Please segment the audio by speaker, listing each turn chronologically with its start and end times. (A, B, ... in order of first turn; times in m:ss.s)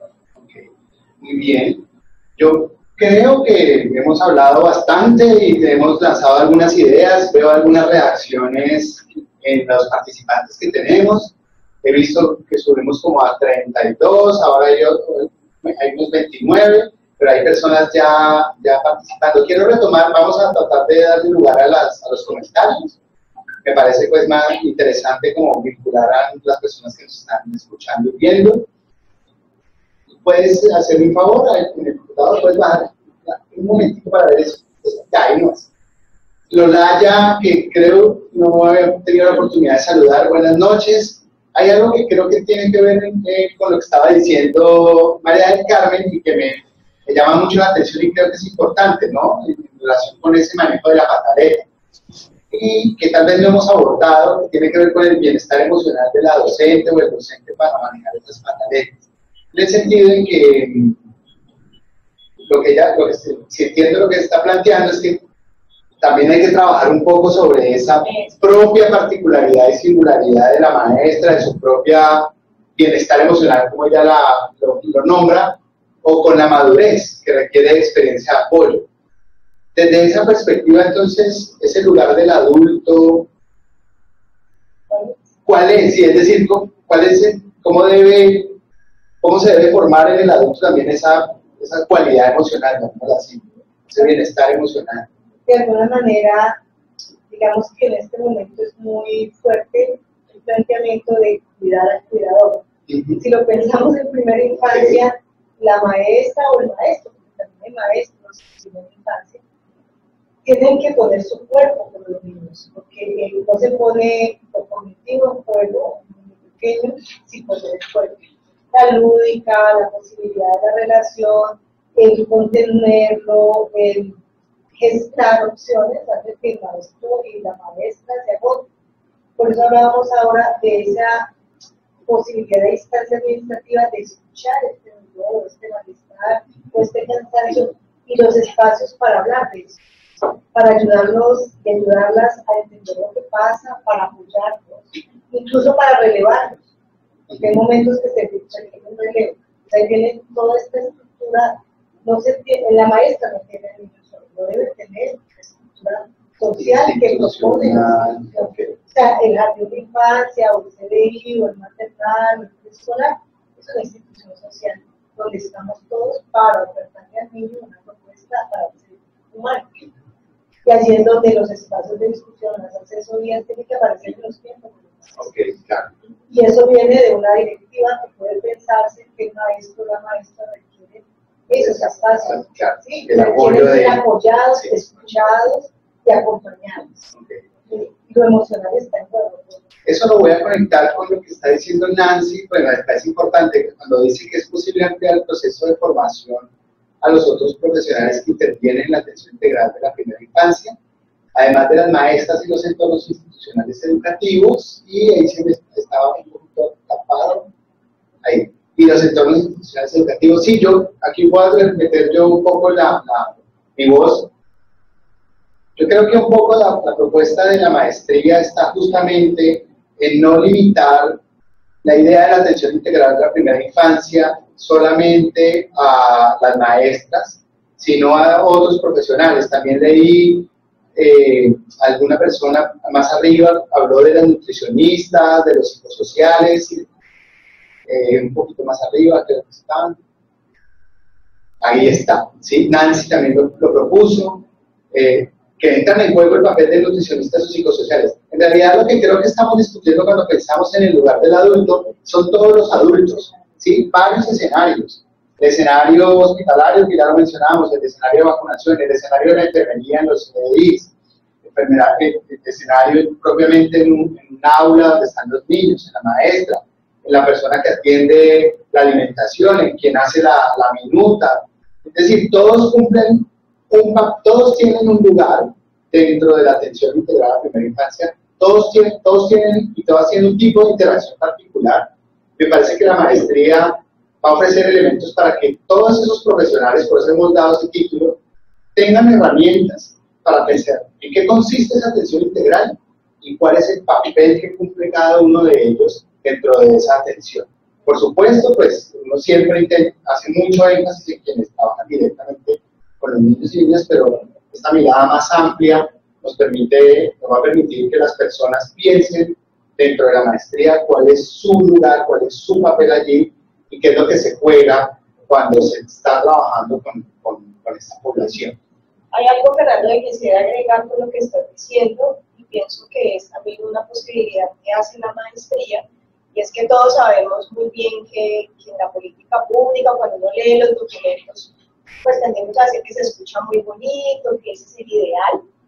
0:01.2-0:01.8 A
0:02.4-0:23.0 A
0:23.6-0:28.7 A
0:30.1-0:35.7 A
0:36.5-0:51.7 A
0:52.5-0:59.0 A
0:59.5-1:01.0 A
1:02.4-1:05.2 A
1:06.0-1:18.9 A
1:08.1-1:08.3 B
1:19.7-1:23.3 A
1:24.9-1:25.2 C
1:25.4-1:28.6 A
1:29.2-1:35.1 A
1:35.5-1:36.6 C
1:37.3-1:42.6 C
1:42.9-1:43.2 A
1:43.2-1:49.4 C
1:44.7-1:45.0 A
1:50.4-2:04.2 C
2:04.8-2:08.7 C
2:09.4-2:11.3 C
2:12.0-2:19.8 C
2:20.5-2:26.6 C
2:27.4-2:49.7 C
2:36.6-2:38.8 A
2:50.6-2:55.3 C
2:55.2-2:55.9 A
2:56.3-3:07.1 C
3:01.6-3:04.0 A
3:07.1-3:07.4 A
3:07.7-3:09.6 C
3:09.8-3:16.5 A
3:17.0-3:20.8 A
3:21.3-3:27.5 A
3:28.2-3:34.3 A
3:35.8-3:41.2 A
3:41.8-3:56.9 A
3:57.9-4:00.0 A
4:01.6-4:20.9 A
4:21.4-4:48.2 A
4:48.8-5:18.6 A
5:19.1-5:25.8 B
5:26.3-5:31.5 B
5:32.0-5:35.4 B